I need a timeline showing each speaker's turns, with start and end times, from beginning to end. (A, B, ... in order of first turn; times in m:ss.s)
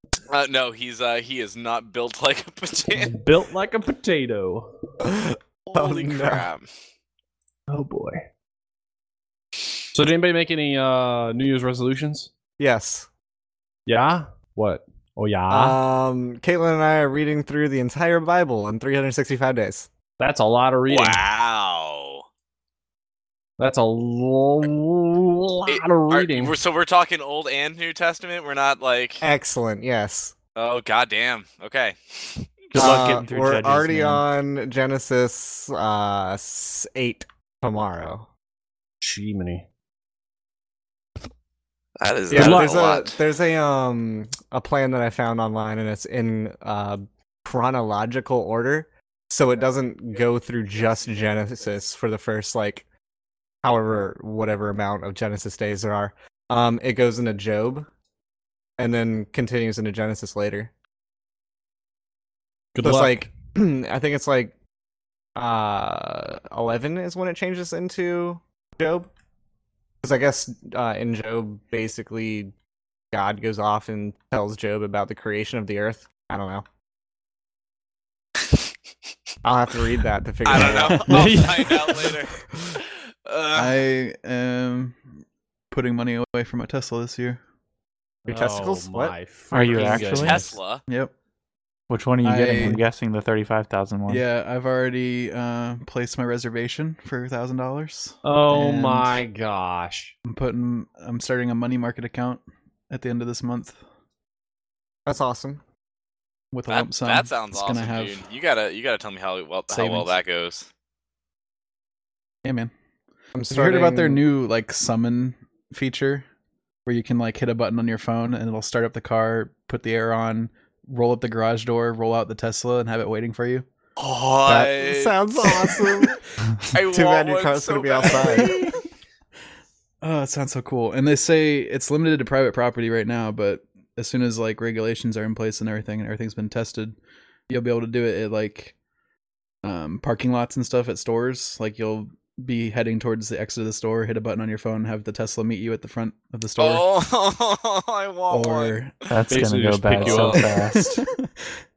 0:00.3-0:03.2 A
0:02.9-0:04.7 B
0:05.0-0:06.5 C
0:05.6-0:06.6 A
0:07.7-0:08.3 B
0:09.9-0:12.3 B
0:12.6-0:13.1 C
0:13.8-0:15.8 B
0:15.5-0:19.9 C
0:20.2-0:21.2 B
0:20.9-0:22.2 A
0:23.6-0:26.5 B
0:25.7-0:29.2 A
0:29.2-0:30.3 C
0:30.6-0:32.4 A
0:32.7-0:34.2 D
0:32.7-0:38.3 C
0:39.0-0:39.6 B
0:42.0-0:43.2 A
0:42.3-0:52.8 C
0:42.4-0:42.7 B
0:53.6-0:57.9 C
0:58.8-1:00.7 C
1:02.7-1:03.3 B
1:02.8-1:04.5 C
1:05.4-1:09.1 C
1:10.0-1:12.5 C
1:13.1-1:16.6 C
1:19.4-1:21.4 C
1:20.4-1:23.8 A
1:21.1-1:22.0 B
1:21.1-1:21.4 E
1:23.5-1:25.0 E
1:25.7-1:27.4 E
1:28.2-1:30.6 B
1:28.3-1:29.1 C
1:29.5-1:30.4 D
1:29.8-1:30.8 A
1:31.9-1:34.2 D
1:32.2-1:32.8 E
1:34.1-1:39.2 E
1:38.2-1:40.1 B
1:40.2-1:43.8 E
1:45.0-1:45.6 C
1:46.5-1:48.2 E
1:46.7-1:50.7 A
1:49.7-1:50.1 E
1:52.4-1:52.7 E
1:53.3-1:54.2 C
1:53.5-1:56.2 E
1:56.8-2:03.6 E
2:04.0-2:05.9 A
2:04.5-2:06.2 C
2:06.7-2:08.6 A
2:06.9-2:08.6 C
2:08.2-2:08.8 E
2:10.0-2:17.0 E
2:17.5-2:18.7 E
2:19.6-2:26.8 E
2:26.6-2:28.8 A
2:28.3-2:28.9 E
2:29.1-2:31.0 D
2:29.3-2:30.5 B
2:30.0-2:30.4 A
2:30.4-2:31.3 E